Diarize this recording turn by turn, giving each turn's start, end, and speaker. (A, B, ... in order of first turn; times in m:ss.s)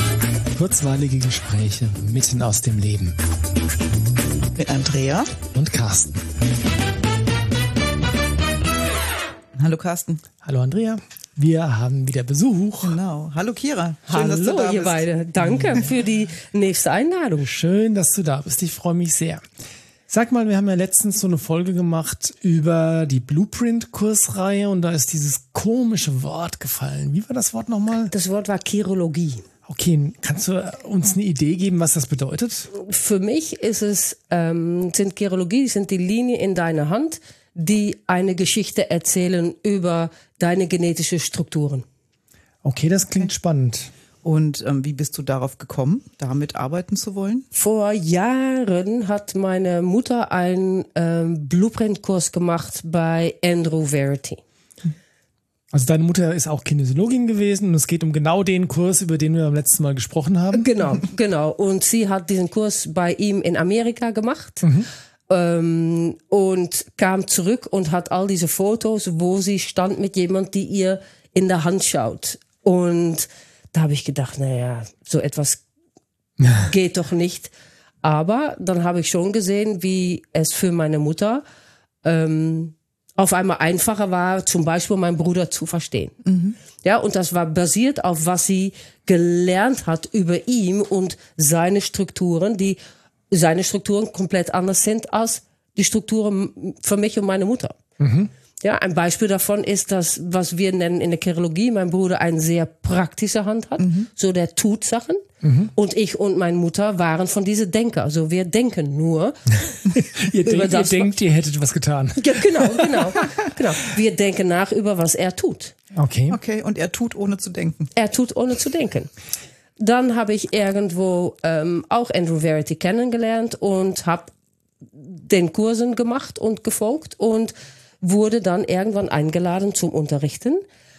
0:00.6-0:03.2 A
0:04.6-0:05.3 B
0:05.5-0:06.2 A
0:09.6-0:10.2 B
0:10.4-0:13.0 A
0:12.8-0:15.1 B
0:14.1-0:17.5 C
0:15.4-0:15.9 A
0:17.4-0:19.4 A
0:20.1-0:28.1 A
0:28.1-0:29.4 C
0:29.7-0:32.7 A
0:32.7-0:41.8 C
0:42.6-0:43.9 A
0:44.2-0:47.4 B
0:47.5-0:54.4 C
0:55.7-1:00.7 A
1:00.5-1:04.7 C
1:04.6-1:04.9 A
1:05.3-1:15.6 C
1:16.6-1:21.4 C
1:22.0-1:26.2 C
1:26.2-1:26.6 B
1:26.8-1:32.8 C
1:33.3-1:37.8 C
1:38.0-1:38.3 A
1:38.6-1:45.2 C
1:43.8-1:44.1 B
1:45.4-1:45.7 A
1:45.8-1:49.8 C
1:49.9-1:53.2 A
1:50.4-1:51.1 C
1:52.2-1:55.8 C
1:56.0-1:56.4 A
1:56.3-1:57.9 B
1:58.0-1:59.1 C
1:59.8-2:04.3 C
2:05.0-2:10.6 C